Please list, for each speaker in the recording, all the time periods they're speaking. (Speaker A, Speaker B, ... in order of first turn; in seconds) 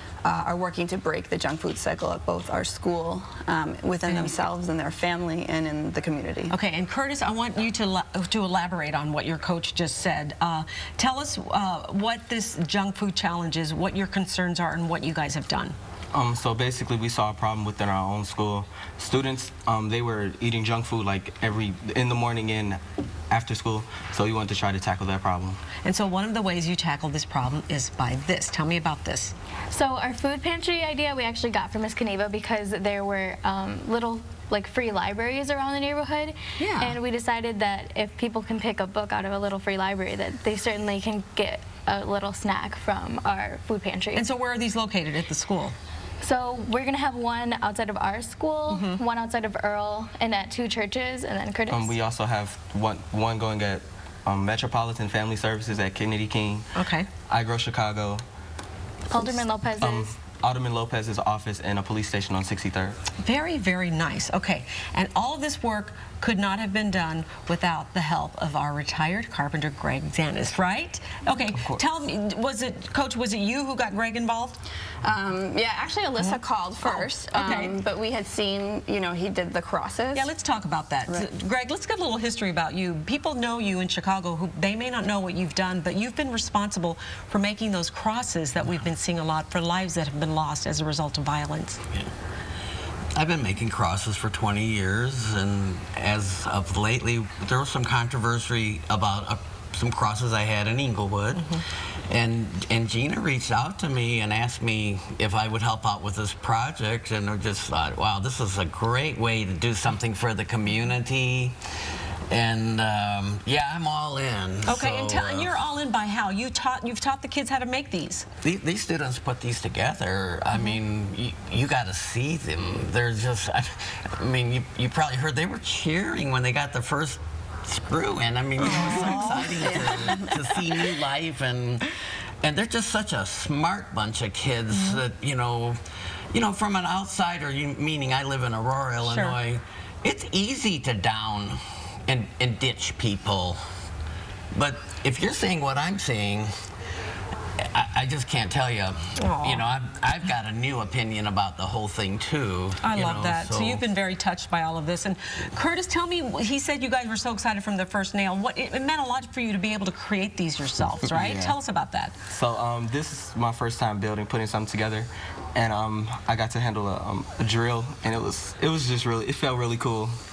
Speaker A: 0.2-6.5, 75.0-80.3
Speaker B: 4.1-4.3, 6.5-15.8, 25.8-29.3, 36.6-37.0, 44.1-45.8, 48.7-49.0, 56.7-57.1, 63.2-74.6, 76.2-77.7, 80.1-91.8, 114.6-118.3, 128.6-130.1, 139.0-139.3, 149.2-149.6, 152.8-162.1
Speaker C: 16.1-25.6, 51.7-56.7, 57.3-58.2, 59.8-63.0, 161.1-161.6, 162.3-170.2
Speaker D: 29.7-44.2, 46.2-51.9, 59.1-60.1
Speaker E: 93.1-111.6, 112.3-115.6, 118.4-131.8, 132.4-135.8, 136.3-143.6, 144.5-146.7, 147.6-153.8